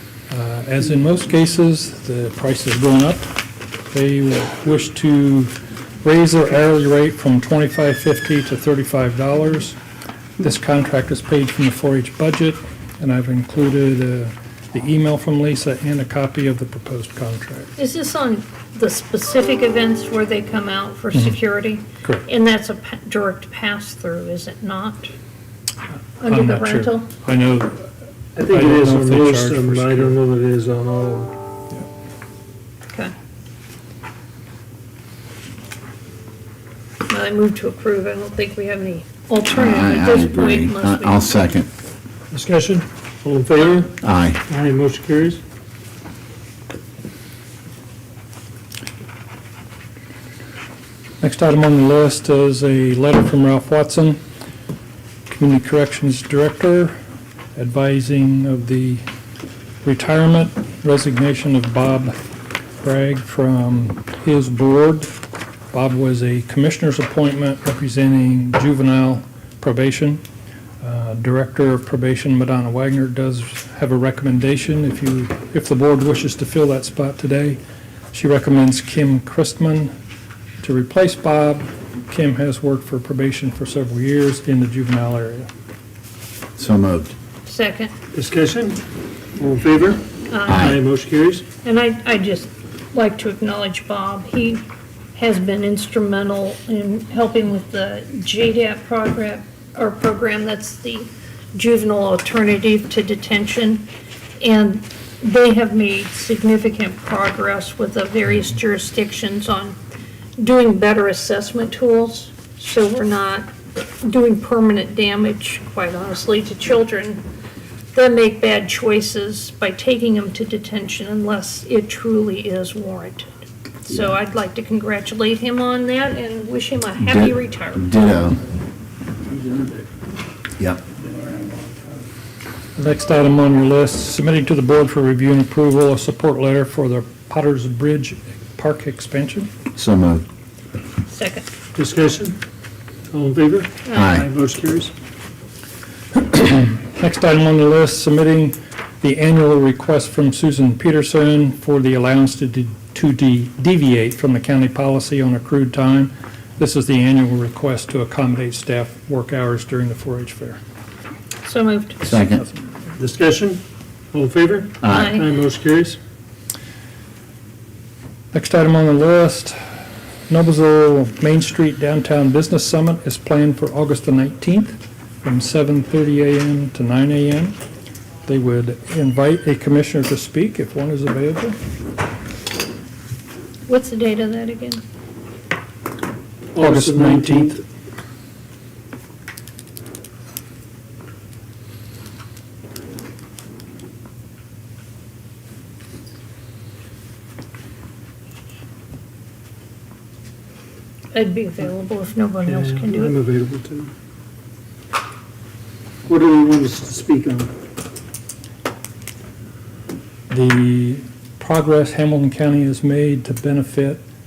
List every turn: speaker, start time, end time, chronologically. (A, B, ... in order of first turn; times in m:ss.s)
0:00.3-0:03.3 A
0:03.9-0:09.8 A
0:10.4-0:17.7 A
0:17.8-0:25.1 B
0:21.1-0:21.4 A
0:26.2-0:27.1 B
0:26.2-0:27.9 A
0:28.4-0:31.3 C
0:28.5-0:30.2 A
0:37.1-0:41.4 B
0:39.5-0:41.7 D
0:42.3-0:44.0 C
0:44.0-0:44.4 D
0:44.5-0:45.4 C
0:51.2-0:54.2 A
0:55.3-0:57.0 A
0:57.6-0:59.0 A
0:59.8-1:02.2 A
1:02.8-1:05.2 A
1:05.7-1:10.2 A
1:10.8-1:17.6 A
1:18.1-1:19.9 A
1:20.6-1:25.5 A
1:26.6-1:27.1 D
1:27.5-1:27.9 B
1:28.1-1:28.8 C
1:29.4-1:31.5 C
1:30.3-1:30.7 B
1:30.5-1:30.8 D
1:31.6-1:43.9 B
1:44.4-1:49.8 B
1:50.4-1:57.2 B
1:57.9-2:03.3 B
2:03.8-2:08.0 B
2:07.0-2:08.4 D
2:12.8-2:19.5 A
2:19.8-2:20.2 D
2:21.1-2:21.5 B
2:21.8-2:22.4 C
2:23.1-2:24.9 C
2:23.9-2:24.2 B
2:24.0-2:24.3 D
2:26.2-2:40.6 A
2:41.4-2:42.0 B
2:42.0-2:42.4 D
2:43.0-2:43.6 C
2:44.1-2:46.0 C
2:44.8-2:45.2 D
2:44.8-2:45.2 B
2:48.3-2:49.6 A
2:50.3-2:57.6 A
2:58.3-3:01.6 A
3:03.7-3:04.8 B
3:06.5-3:07.6 C
3:06.6-3:07.6 A
3:21.1-3:23.2 B
3:22.4-3:23.9 C
3:26.1-3:27.5 C
3:30.3-3:34.0 A